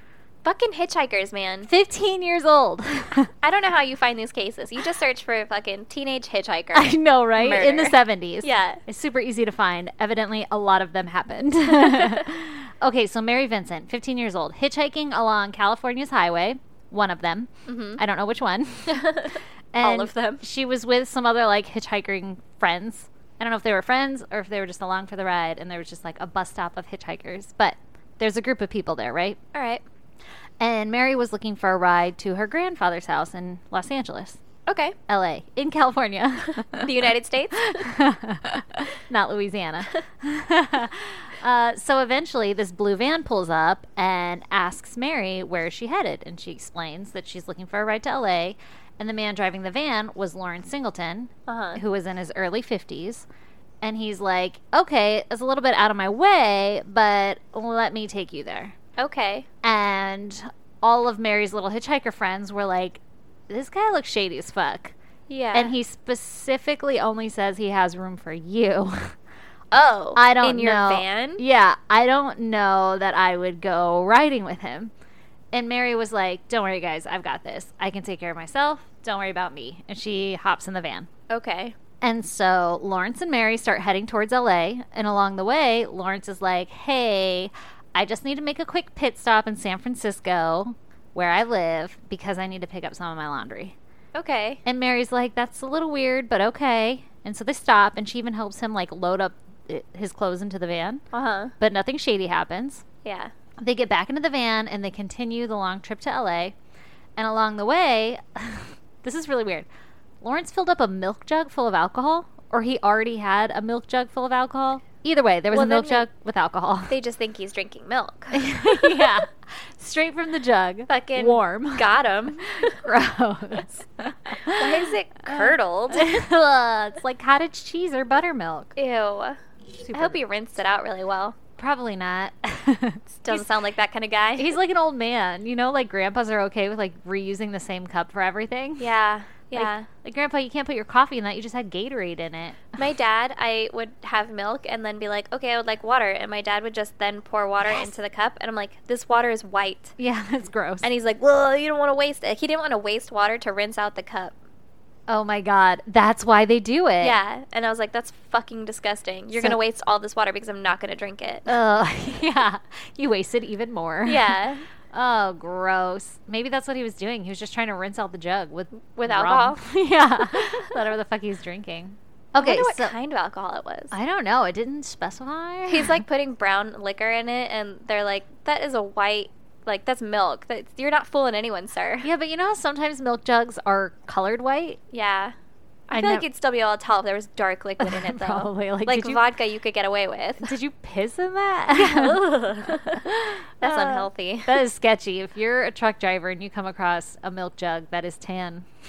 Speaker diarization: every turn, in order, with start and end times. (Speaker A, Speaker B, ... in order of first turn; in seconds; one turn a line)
Speaker A: 0.4-1.7
Speaker B: 1.6-3.3
Speaker A: 3.4-8.8
Speaker B: 6.7-19.1
Speaker A: 11.8-12.2
Speaker A: 17.6-18.0
Speaker A: 18.9-20.4
Speaker B: 19.7-29.4
Speaker A: 29.5-29.8
Speaker B: 30.6-34.4
Speaker A: 34.7-35.0
Speaker B: 35.1-36.9
Speaker A: 36.7-37.9
Speaker B: 37.6-53.2
Speaker A: 51.5-51.8
Speaker B: 53.8-58.8
Speaker A: 59.0-59.5
Speaker B: 59.6-64.9
Speaker A: 65.3-65.7
Speaker B: 65.5-69.1
Speaker A: 69.7-71.4
Speaker B: 70.2-74.9
Speaker B: 75.5-81.1
Speaker A: 81.3-81.7
Speaker B: 82.0-93.8
Speaker A: 94.1-94.6
Speaker B: 94.6-101.0
Speaker A: 101.1-101.5
Speaker B: 101.6-102.8
Speaker A: 103.0-103.3
Speaker B: 103.6-106.5
Speaker B: 107.2-109.7
Speaker B: 110.2-117.0
Speaker A: 115.5-116.1
Speaker A: 116.9-119.2
Speaker B: 118.3-121.9
Speaker A: 120.9-122.8
Speaker B: 122.5-128.7
Speaker A: 124.4-126.2
Speaker A: 128.8-129.4
Speaker B: 129.8-130.2
Speaker A: 129.9-131.4
Speaker B: 131.6-133.5
Speaker A: 133.2-134.6
Speaker B: 134.4-138.9
Speaker A: 138.8-139.9
Speaker B: 139.5-142.8
Speaker A: 142.8-149.9
Speaker B: 150.0-150.9
Speaker A: 150.8-154.3
Speaker B: 155.1-157.2
Speaker A: 157.0-161.5
Speaker B: 161.5-164.4
Speaker A: 164.0-164.6
Speaker B: 164.9-172.9
Speaker A: 168.9-169.6
Speaker A: 170.3-170.8
Speaker A: 172.4-173.9
Speaker B: 173.9-176.0
Speaker A: 175.7-182.1
Speaker B: 182.0-184.8
Speaker A: 184.9-185.3
Speaker A: 185.9-190.5
Speaker B: 185.9-186.2
Speaker B: 187.8-189.3
Speaker B: 190.4-198.7
Speaker A: 191.7-193.1
Speaker A: 193.6-194.6